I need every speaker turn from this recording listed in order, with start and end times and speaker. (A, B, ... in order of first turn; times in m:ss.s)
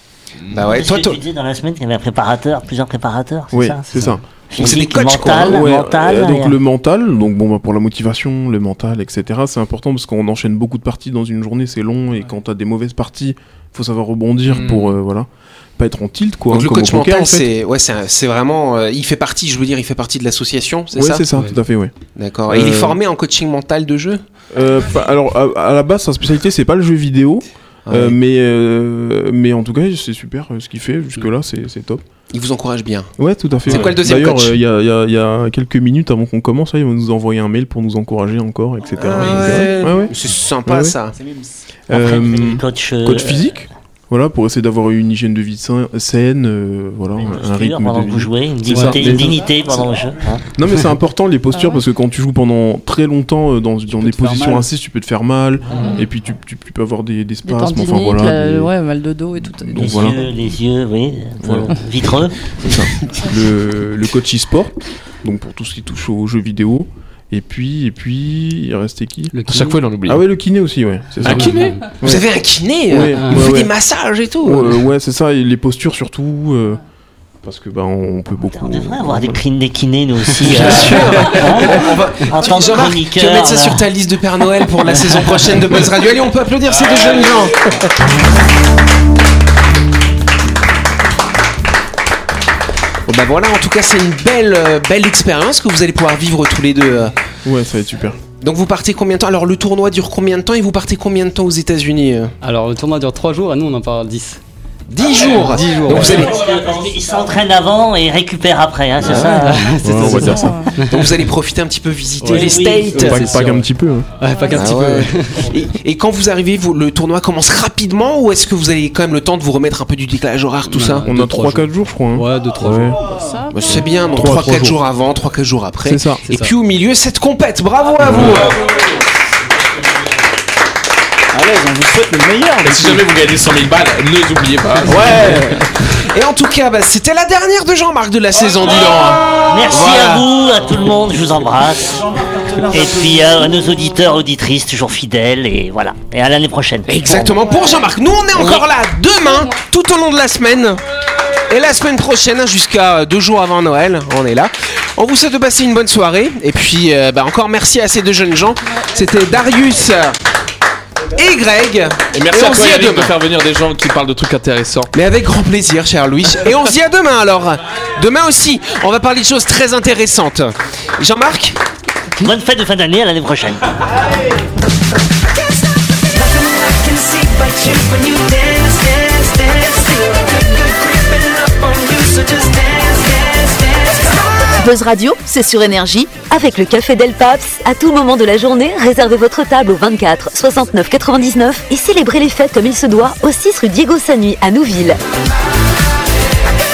0:00.5-0:01.2 A
0:00.7-0:06.6 B
0:03.5-0:04.2 C
0:04.6-0:05.6 A
0:05.3-0:17.5 C
0:14.5-0:15.0 D
0:16.5-0:21.3 A
0:20.9-0:21.9 C
0:22.2-0:24.2 A
0:22.5-0:23.0 C
0:24.5-0:32.0 C
0:27.9-0:28.2 A
0:32.3-0:33.1 A
0:33.2-0:41.0 C
0:33.6-0:34.6 A
0:39.0-0:41.2 A
0:41.1-0:41.6 E
0:41.9-0:43.6 B
0:41.9-0:49.5 C
0:47.2-0:50.4 B
0:48.7-0:49.0 F
0:49.4-0:50.0 E
0:50.5-0:58.7 C
0:51.5-0:51.8 G
0:53.9-0:54.7 E
0:55.7-0:56.0 D
0:55.7-0:56.0 B
0:57.4-1:00.1 G
0:59.4-1:00.3 C
0:59.8-1:02.6 B
1:01.4-1:01.8 C
1:02.6-1:09.4 C
1:09.3-1:09.8 F
1:09.5-1:10.2 D
1:10.0-1:12.3 C
1:11.2-1:11.8 D
1:11.2-1:11.9 F
1:12.0-1:14.8 A
1:12.9-1:13.7 C
1:13.1-1:13.6 F
1:14.4-1:16.8 C
1:17.4-1:19.4 C
1:18.6-1:23.9 B
1:20.4-1:20.8 F
1:20.4-1:27.7 A
1:33.1-1:37.1 A
1:37.4-1:38.2 C
1:38.4-1:42.3 A
1:42.4-1:44.4 F
1:44.9-1:46.4 A
1:45.2-1:46.3 F
1:46.0-1:49.8 B
1:49.0-1:49.6 A
1:49.1-1:51.0 F
1:49.8-1:50.6 C
1:50.1-1:50.7 G
1:50.8-1:53.4 A
1:52.2-1:53.2 B
1:52.2-1:53.7 F
1:52.9-1:54.1 C
1:54.2-1:55.6 F
1:54.3-1:54.6 G
1:54.5-2:01.1 A
2:00.7-2:03.0 F
2:01.0-2:03.0 C
2:02.8-2:03.6 E
2:03.0-2:04.1 G
2:03.5-2:08.6 A
2:04.1-2:04.8 C
2:05.8-2:06.2 C
2:06.2-2:06.5 F
2:08.0-2:08.9 D
2:11.3-2:13.3 E
2:12.6-2:15.5 D
2:14.8-2:15.8 E
2:16.0-2:20.2 A
2:19.5-2:22.0 B
2:21.8-2:23.5 E
2:22.7-2:27.5 B
2:26.9-2:30.8 A
2:27.3-2:27.9 G
2:28.3-2:28.6 B
2:31.5-2:40.2 A
2:41.1-2:43.1 A
2:42.1-2:44.9 D
2:44.9-2:51.6 A
2:52.2-2:53.8 B
2:56.1-3:06.2 H
3:06.3-3:15.0 I